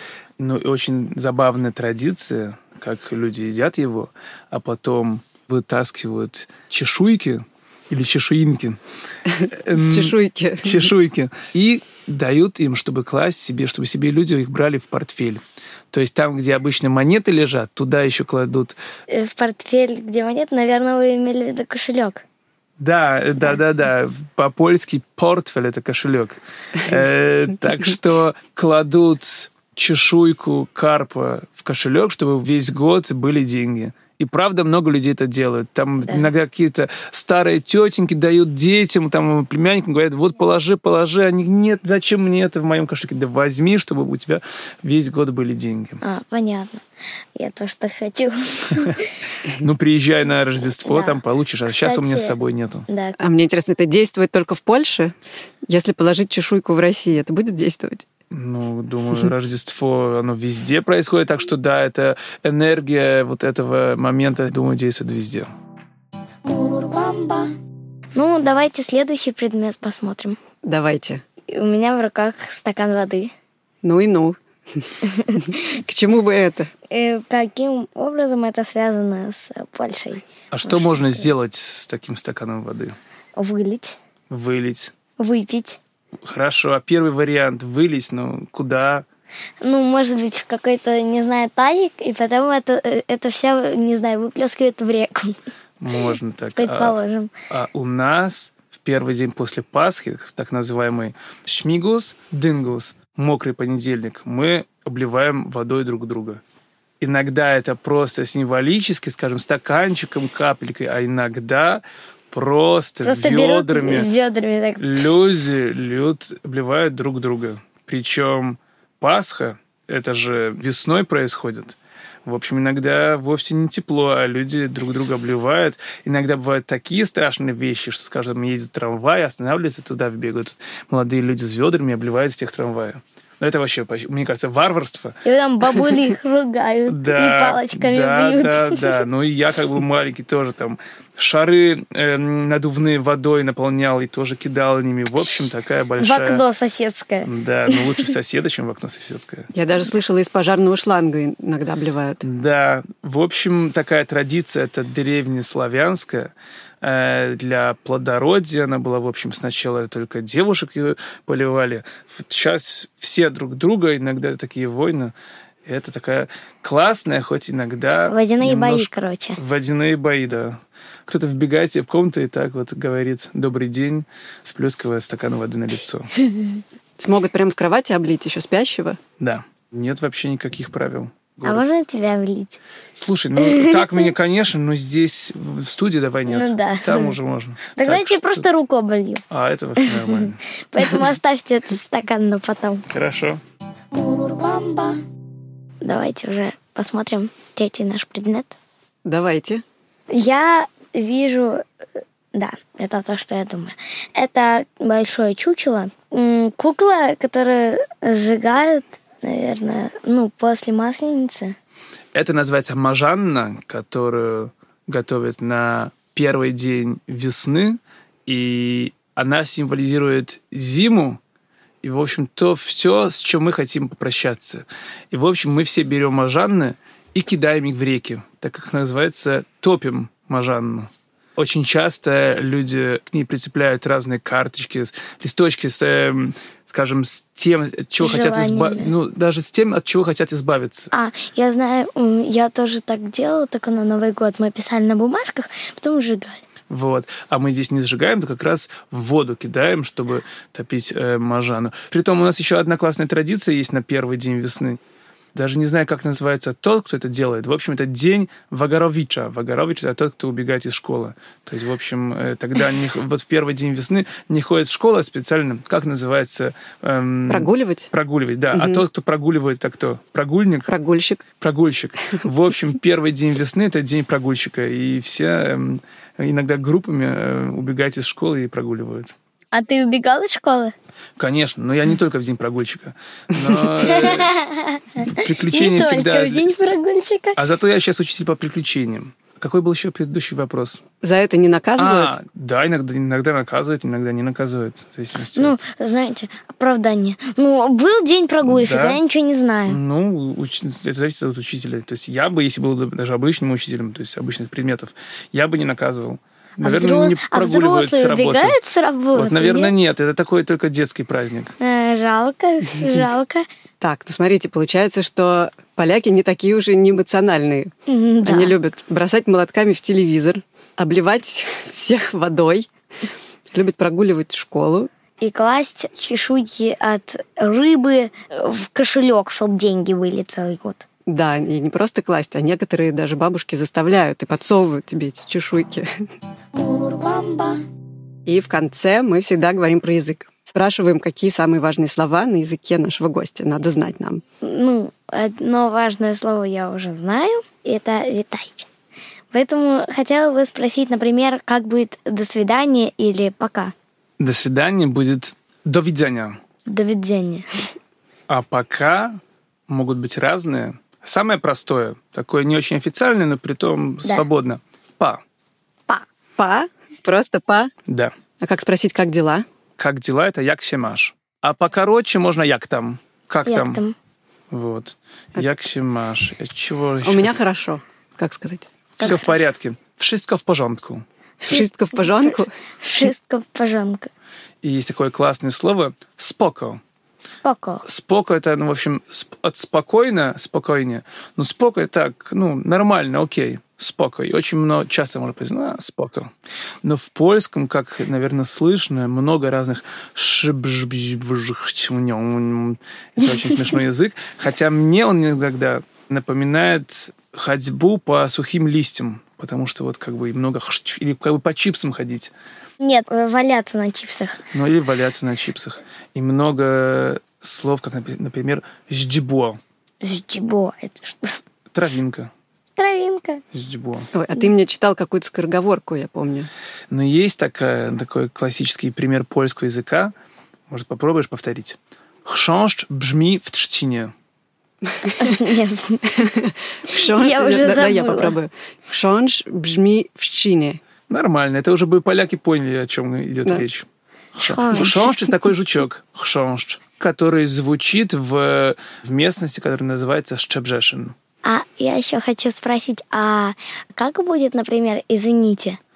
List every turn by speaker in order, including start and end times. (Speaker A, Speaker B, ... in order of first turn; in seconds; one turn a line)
Speaker A: 0.4-8.8
Speaker B: 9.3-10.9
Speaker A: 9.6-15.4
Speaker A: 15.9-18.8
Speaker C: 19.1-22.2
Speaker A: 22.8-46.0
Speaker C: 46.0-46.8
Speaker C: 47.4-49.1
Speaker A: 49.6-52.9
Speaker C: 50.9-52.4
Speaker C: 52.9-53.2
Speaker B: 53.2-55.1
Speaker B: 55.7-58.1
Speaker A: 58.3-65.5
Speaker C: 66.5-67.5
Speaker C: 68.2-70.4
Speaker B: 70.7-71.2
Speaker C: 71.5-73.3
Speaker B: 73.8-76.7
Speaker C: 76.9-81.3
Speaker A: 80.5-83.0
Speaker C: 83.4-84.0
Speaker A: 84.3-84.9
Speaker C: 85.2-85.8
Speaker A: 86.2-89.0
Speaker C: 89.6-95.4
Speaker A: 95.8-97.0
Speaker C: 96.6-97.3
Speaker A: 97.5-106.4
Speaker A: 107.0-114.1
Speaker C: 113.0-115.1
Speaker A: 114.8-135.2
Speaker C: 135.2-138.8
Speaker A: 136.9-146.4
Speaker C: 146.0-147.8
Speaker A: 147.2-149.5
Speaker B: 149.5-152.2
Speaker A: 152.2-165.1
Speaker A: 165.7-176.1
Speaker C: 168.1-169.4
Speaker C: 176.2-176.6
Speaker B: 177.0-179.0
Speaker A: 179.2-181.7
Speaker C: 181.4-182.6
Speaker A: 183.0-188.4
Speaker C: 183.4-184.0
Speaker C: 186.3-187.2
Speaker C: 187.8-189.2
Speaker A: 189.3-190.4
Speaker C: 189.8-190.2
Speaker C: 190.7-192.8
Speaker A: 192.9-193.4
Speaker C: 193.9-195.0
Speaker C: 195.8-198.6
Speaker B: 199.1-199.6
Speaker C: 200.1-201.6
Speaker C: 202.3-211.6
Speaker A: 212.1-221.2
Speaker A: 221.8-240.9
Speaker C: 238.0-238.9
Speaker C: 240.9-246.4
Speaker A: 246.7-254.8
Speaker A: 255.3-270.7
Speaker B: 267.3-267.9
Speaker B: 268.5-268.8
Speaker B: 270.7-271.2
Speaker A: 271.4-279.1
Speaker C: 279.5-280.7
Speaker A: 281.2-284.3
Speaker C: 283.9-287.4
Speaker A: 285.0-286.4
Speaker A: 287.4-290.8
Speaker B: 291.0-292.1
Speaker A: 291.8-295.6
Speaker C: 295.4-299.8
Speaker A: 298.4-299.0
Speaker A: 299.7-308.6
Speaker C: 306.6-309.8
Speaker A: 309.1-311.6
Speaker C: 311.6-313.5
Speaker B: 313.8-317.7
Speaker C: 317.9-318.6
Speaker B: 318.2-322.7
Speaker B: 323.5-324.9
Speaker C: 325.2-330.9
Speaker B: 331.1-336.1
Speaker C: 336.6-337.6
Speaker B: 338.3-344.2
Speaker C: 344.4-348.7
Speaker C: 349.3-353.7
Speaker A: 354.2-356.4
Speaker C: 356.7-357.5
Speaker A: 358.3-365.2
Speaker B: 366.4-367.7
Speaker A: 367.9-368.1
Speaker B: 368.4-369.5
Speaker A: 369.8-373.8
Speaker C: 373.5-373.9
Speaker A: 374.5-377.3
Speaker B: 377.0-378.7
Speaker C: 379.0-379.3
Speaker A: 379.0-381.0
Speaker B: 381.4-382.5
Speaker C: 382.0-382.3
Speaker C: 382.8-384.1
Speaker A: 384.6-386.8
Speaker C: 387.2-387.8
Speaker A: 387.9-396.3
Speaker A: 396.8-412.3
Speaker C: 412.8-414.4
Speaker A: 414.5-419.6
Speaker C: 420.0-421.4
Speaker A: 421.7-422.3
Speaker C: 422.8-423.4
Speaker A: 423.5-424.1
Speaker B: 424.1-426.5
Speaker A: 426.9-430.1
Speaker A: 430.7-434.1
Speaker C: 435.2-436.2
Speaker B: 436.2-440.8
Speaker C: 436.9-438.4
Speaker A: 441.1-443.9
Speaker C: 444.4-444.9
Speaker A: 444.4-451.1
Speaker C: 451.4-455.8